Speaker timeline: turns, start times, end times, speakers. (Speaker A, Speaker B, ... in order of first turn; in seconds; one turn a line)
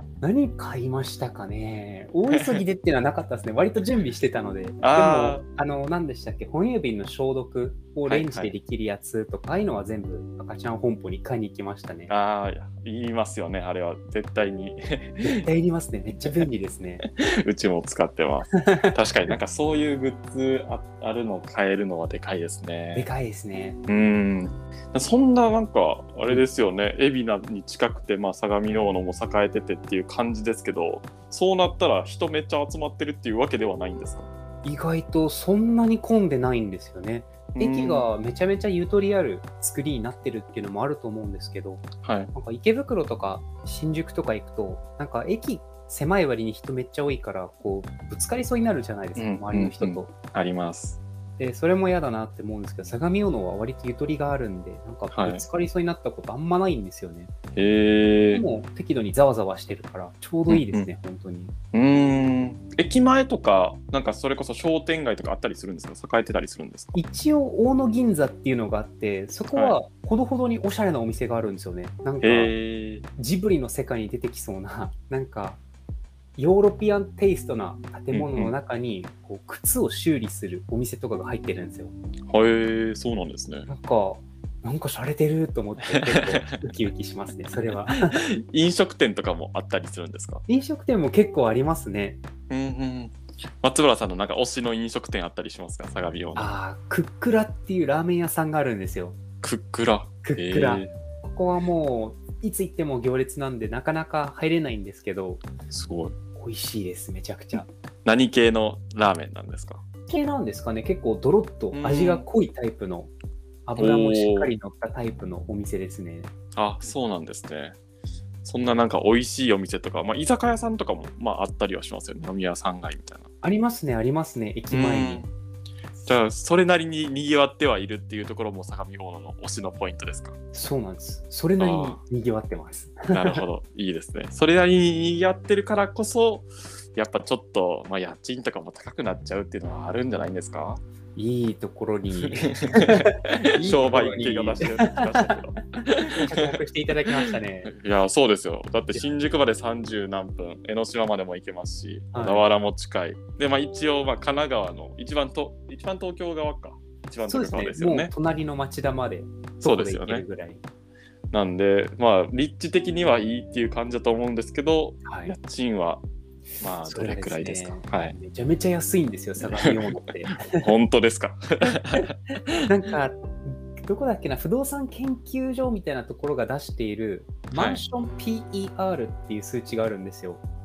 Speaker A: 0.2-12.1
Speaker B: 2.3-2.6
Speaker B: 4.8-5.4
Speaker B: 8.1-8.5
Speaker B: 12.1-15.4
Speaker A: 15.2-17.0
Speaker B: 17.0-23.1
Speaker A: 18.6-18.9
Speaker A: 22.9-23.8
Speaker B: 23.9-34.3
Speaker A: 34.6-50.1
Speaker B: 37.5-38.1
Speaker B: 42.0-42.3
Speaker B: 49.2-51.0
Speaker A: 51.4-57.3
Speaker B: 55.1-55.4
Speaker B: 57.6-58.4
Speaker A: 58.3-61.5
Speaker B: 60.5-60.9
Speaker B: 61.7-67.0
Speaker A: 66.9-72.5
Speaker B: 72.2-73.0
Speaker A: 73.2-75.6
Speaker A: 76.4-81.9
Speaker B: 78.1-78.5
Speaker B: 82.3-83.7
Speaker A: 83.7-88.2
Speaker B: 85.9-86.5
Speaker B: 87.7-90.4
Speaker A: 90.5-92.2
Speaker B: 92.5-96.5
Speaker A: 96.4-99.2
Speaker B: 99.4-100.9
Speaker A: 100.2-105.5
Speaker B: 105.7-106.2
Speaker A: 106.3-107.7
Speaker B: 107.6-110.0
Speaker A: 110.1-113.1
Speaker B: 111.7-112.3
Speaker A: 113.7-116.3
Speaker B: 113.8-114.5
Speaker B: 116.6-117.8
Speaker B: 118.4-123.3
Speaker A: 123.4-125.2
Speaker B: 124.7-125.3
Speaker B: 126.1-130.3
Speaker A: 130.5-133.4
Speaker B: 131.6-132.0
Speaker B: 133.1-140.8
Speaker A: 141.2-145.4
Speaker B: 142.2-146.6
Speaker A: 146.0-147.7
Speaker B: 147.7-158.1
Speaker A: 152.1-152.4
Speaker A: 157.2-160.6
Speaker B: 159.6-160.2
Speaker B: 161.3-166.0
Speaker A: 165.1-165.3
Speaker B: 166.6-168.2
Speaker A: 166.8-170.6
Speaker B: 169.4-172.6
Speaker A: 172.7-180.4
Speaker B: 177.5-177.8